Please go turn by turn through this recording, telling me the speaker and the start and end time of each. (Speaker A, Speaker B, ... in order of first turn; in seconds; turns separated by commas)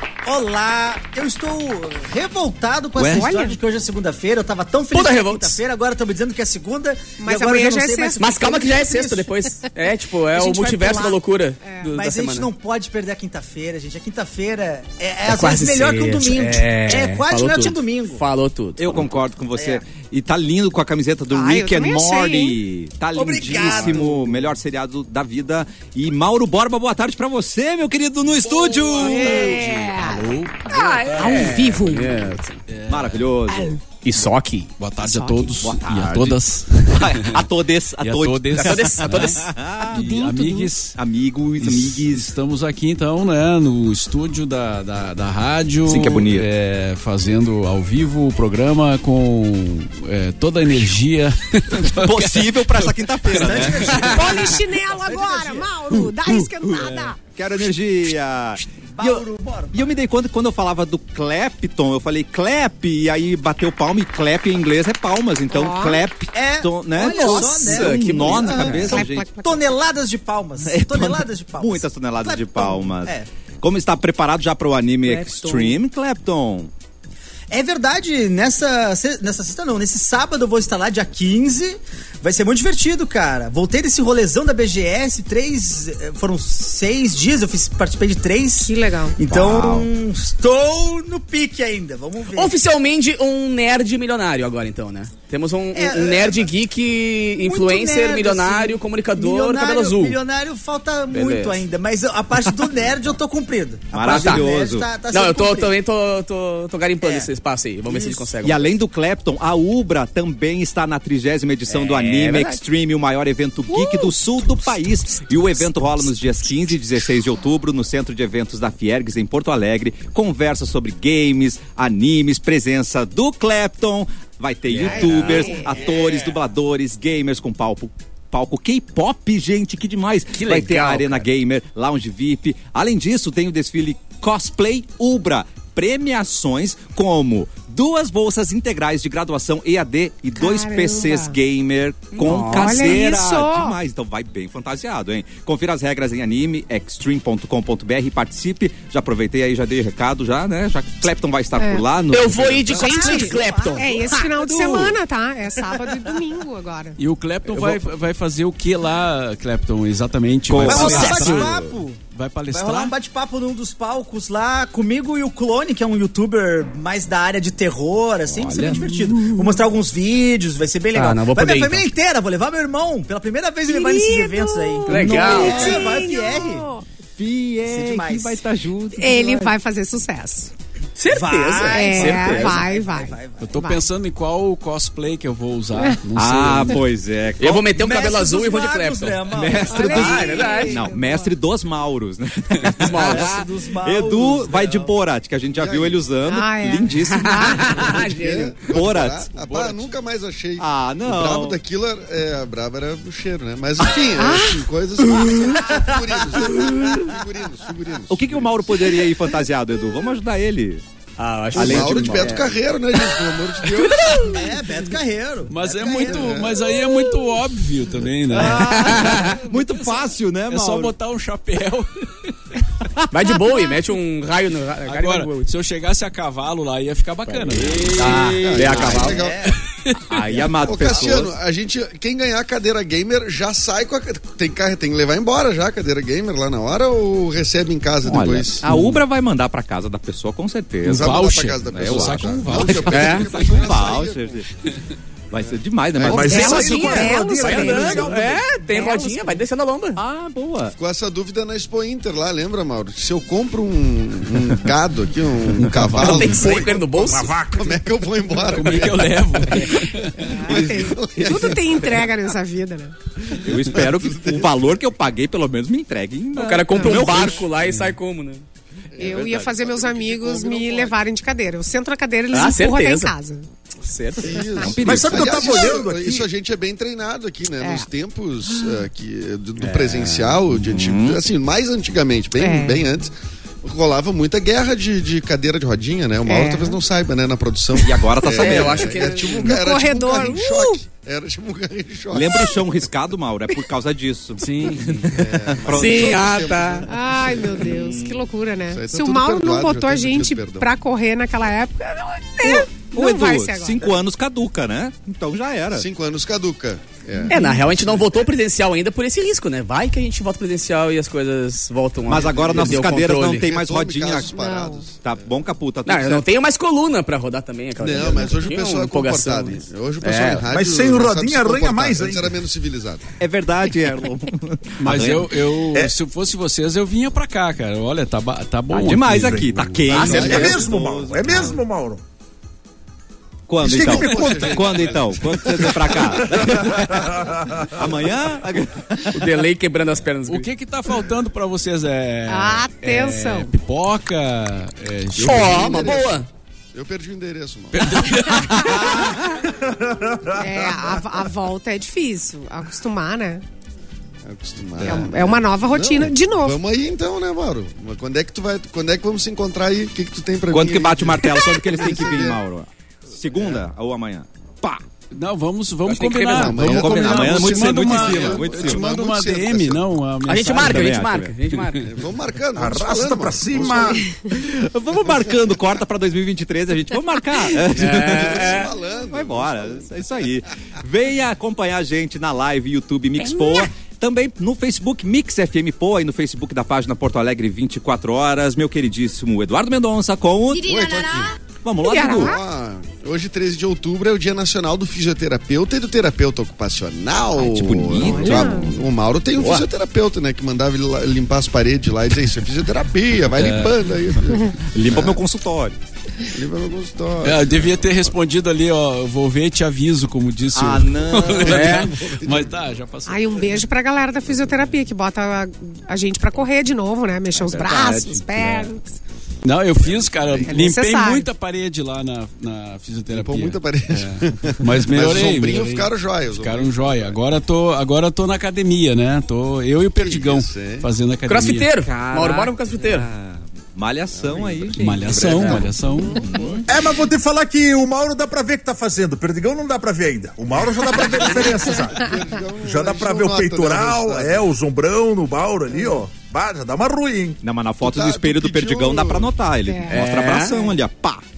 Speaker A: 0.2-9.3, Speaker B: 3.0-3.4, Speaker C: 3.0-3.6, Speaker D: 4.9-5.6, Speaker C: 7.2-8.6, Speaker D: 8.2-12.5, Speaker C: 10.3-11.9, Speaker A: 11.8-18.2, Speaker D: 15.3-18.9, Speaker B: 18.8-30.1, Speaker A: 19.6-19.8, Speaker C: 21.3-22.6, Speaker A: 23.1-24.4, Speaker E: 28.4-31.5, Speaker C: 29.0-32.0, Speaker D: 30.7-32.6, Speaker B: 31.4-31.9, Speaker E: 32.7-33.4, Speaker B: 32.9-33.8, Speaker C: 33.5-33.8, Speaker D: 34.0-34.7, Speaker E: 34.8-37.4, Speaker C: 35.0-35.5, Speaker B: 35.6-40.1, Speaker E: 38.0-41.0, Speaker D: 38.5-39.5, Speaker C: 39.9-40.7, Speaker B: 41.0-42.3, Speaker E: 41.6-54.1, Speaker B: 45.9-46.5, Speaker B: 51.8-69.3, Speaker A: 53.3-55.5, Speaker D: 53.9-54.5, Speaker C: 54.1-57.2, Speaker A: 58.9-60.0, Speaker C: 65.5-66.0, Speaker A: 66.3-73.3, Speaker D: 67.0-68.9, Speaker C: 68.9-69.6, Speaker B: 70.6-76.7, Speaker A: 75.0-75.8, Speaker A: 77.5-92.6, Speaker C: 88.6-89.2, Speaker B: 89.2-89.9, Speaker D: 92.3-100.2, Speaker A: 95.7-96.5, Speaker A: 97.4-105.7, Speaker D: 101.1-101.6, Speaker B: 103.9-104.9, Speaker D: 104.1-104.5, Speaker D: 105.1-108.8, Speaker A: 107.0-107.3, Speaker A: 107.8-108.3, Speaker B: 108.4-152.9, Speaker D: 111.7-112.5, Speaker D: 124.7-125.6, Speaker A: 124.8-126.4, Speaker C: 124.9-125.8, Speaker D: 130.3-131.2, Speaker C: 140.4-141.3, Speaker D: 142.2-142.9, Speaker C: 142.3-143.8, Speaker C: 151.6-151.8, Speaker D: 152.1-153.9, Speaker A: 152.7-154.8, Speaker C: 152.7-157.0, Speaker B: 154.2-155.0, Speaker E: 157.0-161.6, Speaker D: 157.5-157.8, Speaker B: 160.5-161.6, Speaker A: 160.6-176.7, Speaker D: 160.8-161.5, Speaker E: 162.1-162.9, Speaker B: 168.3-169.1, Speaker C: 168.8-169.6, Speaker D: 170.9-171.8, Speaker C: 173.7-176.8, Speaker D: 174.9-175.8, Speaker B: 174.9-175.9, Speaker B: 177.2-179.5, Speaker A: 177.5-178.4, Speaker C: 179.0-180.5, Speaker D: 181.0-182.6, Speaker A: 181.1-183.5, Speaker C: 181.7-183.8, Speaker E: 183.4-186.8, Speaker B: 186.2-187.8, Speaker D: 187.4-189.3, Speaker A: 187.8-190.8, Speaker B: 189.3-197.9, Speaker C: 189.7-191.3, Speaker D: 189.9-190.8, Speaker D: 192.8-193.4, Speaker A: 192.9-194.9, Speaker F: 195.6-196.0, Speaker C: 196.3-198.0, Speaker D: 197.1-198.7, Speaker F: 197.8-208.9, Speaker B: 198.6-199.3, Speaker E: 199.3-199.9, Speaker B: 200.6-201.6, Speaker C: 204.2-204.6, Speaker C: 205.3-205.6, Speaker A: 205.8-207.2, Speaker B: 208.1-210.8, Speaker D: 211.2-212.5, Speaker B: 211.5-212.5, Speaker F: 211.5-214.2, Speaker D: 213.2-214.4, Speaker A: 214.2-216.4, Speaker E: 215.5-222.3, Speaker F: 216.1-216.6, Speaker B: 218.3-220.9, Speaker D: 218.6-219.4, Speaker D: 223.1-225.5, Speaker C: 223.4-223.8, Speaker E: 224.9-228.1, Speaker D: 227.3-229.3, Speaker A: 228.0-229.6, Speaker F: 228.4-229.4, Speaker B: 228.7-229.2, Speaker E: 229.5-230.2, Speaker B: 230.0-231.3, Speaker F: 230.6-238.7, Speaker B: 238.0-244.5, Speaker E: 240.8-243.2, Speaker F: 240.9-244.4, Speaker D: 242.9-243.3, Speaker B: 245.3-247.0, Speaker F: 245.4-246.5, Speaker G: 246.0-248.5, Speaker C: 246.1-249.4, Speaker D: 246.5-250.0, Speaker B: 250.0-250.7, Speaker F: 250.8-256.8, Speaker E: 255.6-256.4, Speaker D: 256.0-257.3, Speaker G: 256.3-257.8, Speaker F: 257.5-262.0, Speaker E: 258.4-260.2, Speaker C: 260.2-262.9, Speaker B: 263.4-267.5, Speaker F: 263.4-264.6, Speaker D: 266.4-268.4, Speaker F: 266.7-267.1, Speaker E: 267.6-267.9, Speaker F: 268.9-271.0, Speaker C: 269.0-273.5, Speaker B: 269.0-269.7, Speaker D: 272.3-273.1, Speaker D: 273.8-274.4, Speaker F: 274.2-283.1, Speaker B: 274.6-275.6, Speaker G: 274.8-276.2, Speaker C: 277.6-277.9, Speaker D: 279.6-280.4, Speaker B: 280.7-281.2, Speaker C: 282.4-282.8, Speaker F: 283.6-292.6, Speaker C: 286.2-286.8, Speaker B: 287.8-289.0, Speaker D: 288.4-289.6, Speaker C: 289.4-290.8, Speaker B: 292.1-296.5, Speaker E: 294.4-295.1, Speaker F: 295.1-297.8, Speaker D: 295.7-296.9, Speaker C: 296.9-303.9, Speaker B: 297.6-298.3, Speaker F: 298.7-300.7, Speaker B: 302.4-305.9, Speaker F: 305.7-308.3, Speaker D: 307.3-313.5, Speaker B: 312.1-314.3, Speaker F: 312.2-315.2, Speaker C: 314.4-314.8, Speaker B: 315.0-316.2, Speaker D: 315.9-320.4, Speaker F: 317.8-323.0, Speaker G: 320.5-322.3, Speaker B: 323.2-325.4, Speaker E: 324.8-330.1, Speaker B: 328.7-331.6, Speaker G: 329.2-329.4, Speaker D: 329.9-330.6, Speaker F: 329.9-331.5, Speaker G: 330.0-332.0, Speaker B: 333.5-339.3, Speaker F: 333.6-337.1, Speaker G: 336.3-337.7, Speaker D: 339.1-340.5, Speaker E: 340.3-346.0, Speaker C: 342.3-343.5, Speaker D: 345.2-346.3, Speaker F: 345.2-346.2, Speaker F: 346.7-348.3, Speaker E: 347.7-349.1, Speaker B: 348.6-349.1, Speaker G: 349.4-350.5, Speaker C: 350.4-353.4, Speaker F: 354.2-362.4, Speaker C: 354.8-356.6, Speaker B: 360.5-364.8, Speaker F: 363.3-363.7, Speaker E: 365.1-370.9, Speaker D: 365.9-366.5, Speaker F: 366.1-369.9, Speaker B: 366.4-368.9, Speaker D: 370.3-372.0, Speaker B: 370.6-371.4, Speaker E: 371.5-371.9, Speaker F: 371.8-374.0, Speaker G: 372.6-374.1, Speaker B: 374.3-390.8, Speaker F: 375.1-375.6, Speaker D: 377.8-378.7, Speaker F: 377.8-379.9, Speaker F: 390.6-391.4, Speaker B: 391.6-392.4, Speaker C: 391.8-392.4, Speaker F: 392.1-405.2, Speaker B: 397.4-398.8, Speaker C: 398.0-398.7, Speaker B: 399.4-399.7, Speaker E: 403.4-403.8, Speaker B: 404.7-405.8, Speaker F: 406.3-408.1, Speaker E: 407.2-413.6, Speaker B: 410.5-411.9, Speaker D: 411.4-411.9, Speaker F: 411.7-412.6, Speaker C: 413.1-419.0, Speaker B: 417.4-418.7, Speaker E: 419.4-431.7, Speaker F: 419.8-420.7, Speaker C: 420.5-421.3, Speaker F: 423.1-427.2, Speaker F: 430.0-430.9, Speaker D: 431.3-433.1, Speaker B: 431.8-436.7, Speaker F: 434.1-436.7, Speaker E: 434.8-436.2, Speaker G: 436.7-447.4, Speaker F: 441.2-444.4, Speaker B: 447.4-451.2, Speaker F: 447.8-449.3, Speaker C: 449.6-450.0, Speaker D: 449.9-450.6